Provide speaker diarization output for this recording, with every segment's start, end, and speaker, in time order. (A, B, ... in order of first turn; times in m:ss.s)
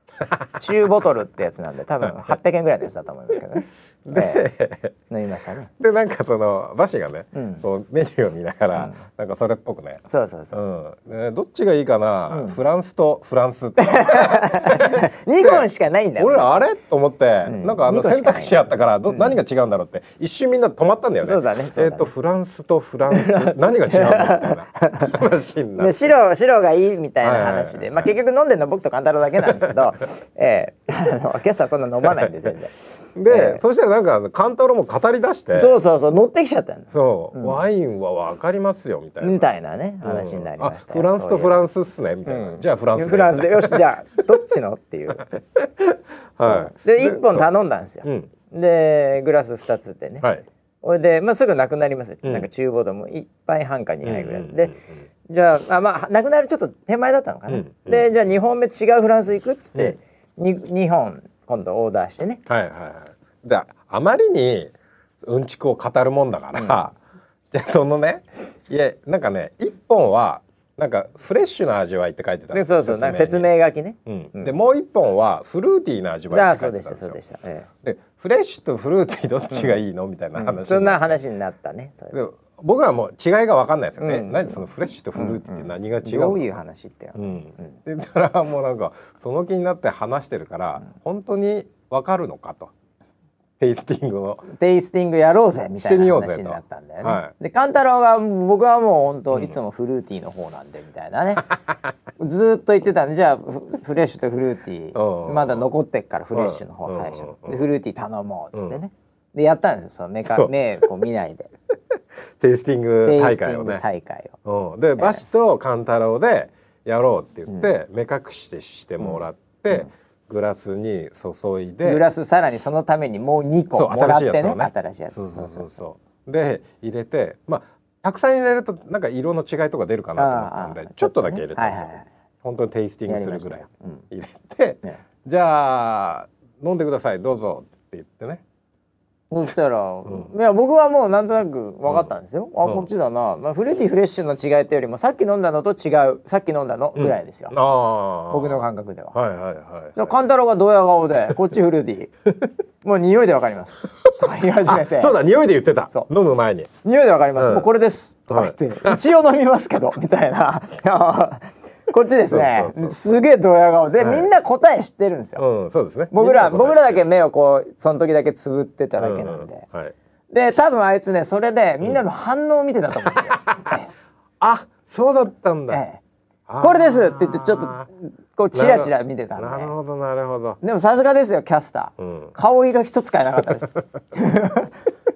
0:00.6-0:04.4 A
0:04.0-0:04.9 B
0:05.1-0:05.7 A
0:05.8-0:15.6 B
0:07.3-0:07.6 A
0:08.7-0:09.0 A
0:10.0-0:10.6 A
0:12.3-0:12.6 A
0:13.8-0:16.5 A
0:16.2-0:26.1 B
0:17.4-0:19.4 A
0:21.2-0:22.1 A
0:23.1-0:25.2 A
0:25.8-0:32.7 A
0:27.2-0:28.1 B
0:29.4-0:29.8 B
0:32.0-0:32.5 B
0:33.2-0:35.8 B
0:33.3-0:33.6 A
0:35.5-0:37.6 A
0:36.9-0:39.5 B
0:39.2-0:41.6 A
0:40.0-0:43.8 B
0:42.2-0:45.2 A
0:45.5-0:47.5 B
0:46.4-0:50.3 A
0:48.0-0:48.3 B
0:50.8-0:54.7 A
0:54.0-0:54.9 B
0:55.3-1:02.4 A
0:57.5-0:58.1 B
1:02.5-1:07.0 B
1:06.6-1:06.8 A
1:07.5-1:13.5 B
1:12.5-1:14.5 A
1:14.0-1:17.2 B
1:16.3-1:17.7 A
1:17.8-1:21.2 B
1:19.5-1:19.8 A
1:20.4-1:22.2 A
1:22.1-1:26.4 B
1:24.0-1:27.8 A
1:27.2-1:32.7 B
1:33.6-1:34.4 B
1:34.4-1:41.5 A
1:35.8-1:37.3 B
1:39.3-1:39.6 B
1:42.2-1:51.5 A
1:44.9-1:45.7 B
1:46.3-1:47.6 B
1:52.4-1:53.8 B
1:53.0-1:54.4 A
1:54.4-2:02.0 B
1:55.0-1:55.2 A
1:59.0-1:59.9 A
2:01.8-2:05.8 A
2:03.7-2:18.4 B
2:10.2-2:12.1 A
2:13.1-2:14.0 A
2:19.3-2:27.6 A
2:26.9-2:30.1 B
2:28.3-2:29.2 A
2:30.0-2:32.1 A
2:32.8-2:35.2 A
2:34.6-2:36.7 B
2:36.8-2:45.4 A
2:37.4-2:37.7 B
2:38.3-2:39.0 B
2:42.3-2:43.0 B
2:44.0-2:44.3 B
2:45.4-2:47.0 B
2:46.1-2:49.6 A
2:49.0-2:49.9 B
2:50.3-2:53.9 A
2:53.1-2:53.8 B
2:54.4-2:55.8 B
2:55.7-2:56.0 A
2:56.5-2:57.9 B
2:56.6-2:59.7 A
2:58.5-3:00.6 B
3:00.6-3:04.7 A
3:02.0-3:02.3 B